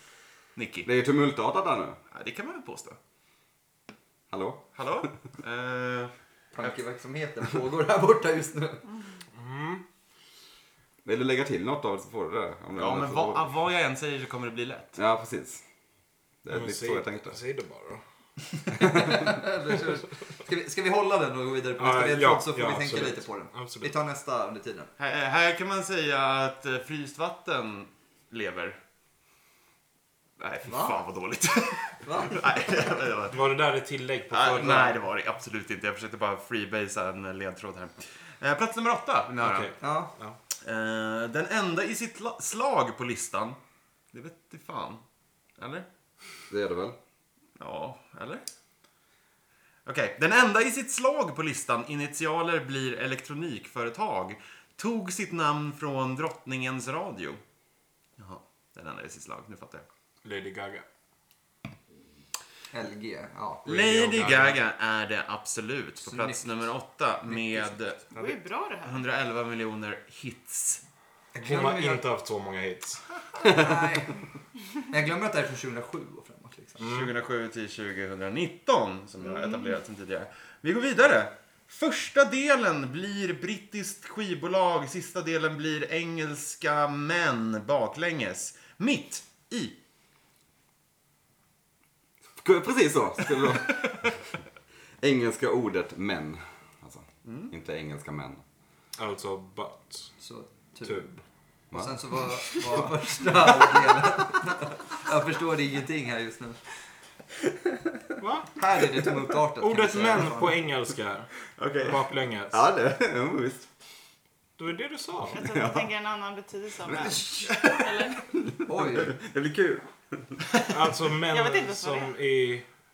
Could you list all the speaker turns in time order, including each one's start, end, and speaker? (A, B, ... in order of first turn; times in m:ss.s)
0:00.5-0:00.9 A
0:00.8-0:02.0 B
0:02.1-0:03.0 A
0:04.3-0:05.1 B
0:04.8-0:06.7 A
0:06.5-0:08.8 C
0:09.3-0:09.8 D
0:11.0-0:13.5 B
0:12.8-0:15.0 A
0:15.0-0:15.6 B
0:16.4-0:17.4 B
0:16.5-0:18.0 D
0:18.7-0:24.9 C
0:21.8-0:23.9 D
0:25.0-0:28.8 A
0:30.4-0:33.4 A
0:30.7-0:31.0 C
0:32.0-0:32.4 C
0:33.3-0:35.0 D
0:34.3-0:39.7 A
0:39.4-0:40.4 D
0:39.8-0:40.1 C
0:40.6-0:43.6 A
0:44.1-0:45.0 A
0:45.6-0:45.8 A
0:46.5-0:47.0 B
0:47.6-0:48.4 A
0:49.8-0:57.4 A
0:58.2-0:59.8 A
1:00.2-1:00.8 D
1:02.7-1:03.7 C
1:03.6-1:08.1 A
1:03.6-1:04.6 D
1:06.0-1:06.6 C
1:07.3-1:07.7 C
1:08.1-1:09.0 E
1:08.8-1:10.8 A
1:11.3-1:12.0 C
1:11.4-1:13.0 D
1:13.5-1:14.2 C
1:14.9-1:16.8 C
1:16.8-1:17.1 D
1:16.8-1:29.8 A
1:32.4-1:34.2 B
1:33.4-1:34.1 A
1:35.0-1:38.4 B
1:37.2-1:37.5 A
1:39.0-1:40.1 D
1:40.2-1:41.2 C
1:41.7-1:42.2 B
1:41.7-1:46.6 C
1:48.2-1:48.6 D
1:48.6-1:50.6 C
1:49.6-1:52.6 D
1:52.5-1:53.7 B
1:54.6-1:55.4 D
1:55.3-1:58.2 E
1:55.3-1:55.9 B
1:56.8-2:00.4 B
1:58.6-1:59.2 C
2:00.7-2:02.6 D
2:01.3-2:02.1 E